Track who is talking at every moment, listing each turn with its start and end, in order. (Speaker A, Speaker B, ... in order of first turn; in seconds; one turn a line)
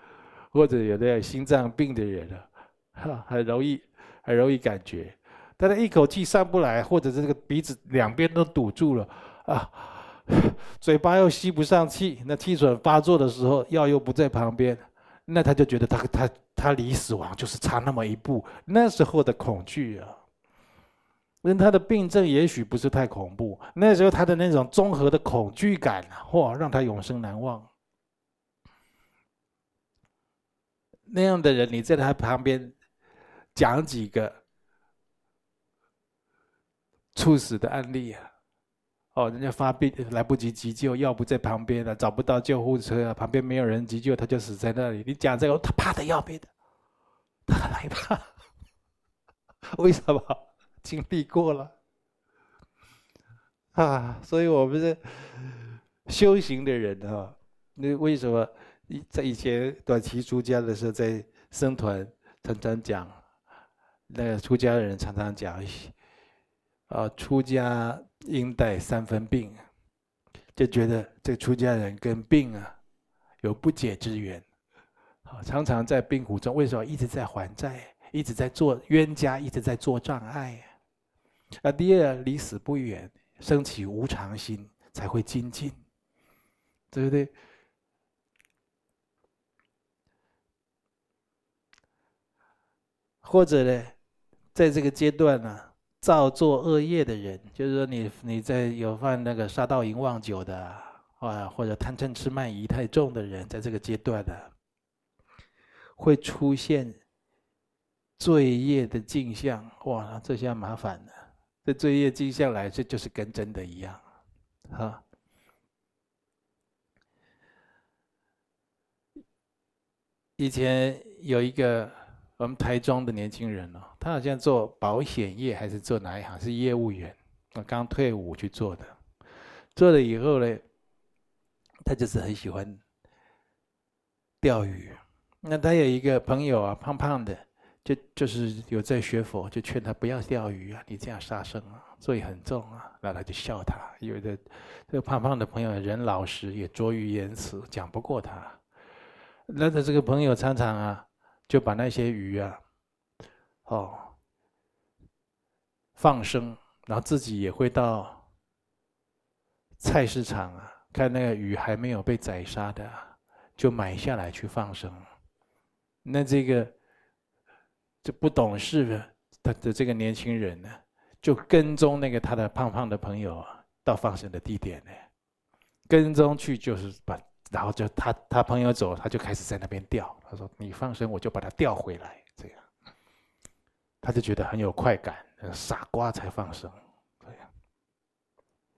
Speaker A: 0.5-20.2
Speaker A: 21.4-27.7
Speaker A: 31.1-32.7
Speaker A: 33.5-34.4
Speaker A: 37.1-38.3
Speaker A: 39.1-46.5
Speaker A: 47.5-48.2
Speaker A: 49.8-51.7
Speaker A: 53.7-63.2
Speaker A: 64.1-65.9
Speaker A: 66.9-69.6
Speaker A: 70.5-72.7
Speaker A: 73.4-74.4
Speaker A: 75.2-80.7
Speaker A: 81.6-85.8
Speaker A: 86.9-87.3
Speaker A: 93.2-93.9
Speaker A: 94.5-104.5
Speaker A: 106.0-107.0
Speaker A: 108.2-111.1
Speaker A: 111.6-114.0
Speaker A: 114.7-115.0
Speaker A: 120.4-128.9
Speaker A: 129.7-130.6
Speaker A: 131.8-132.8
Speaker A: 134.4-148.6
Speaker A: 149.5-152.6
Speaker A: 153.7-154.1
Speaker A: 155.9-158.2
Speaker A: 159.8-165.0
Speaker A: 166.0-166.7
Speaker A: 168.0-175.0
Speaker A: 175.9-182.6
Speaker A: 184.0-187.4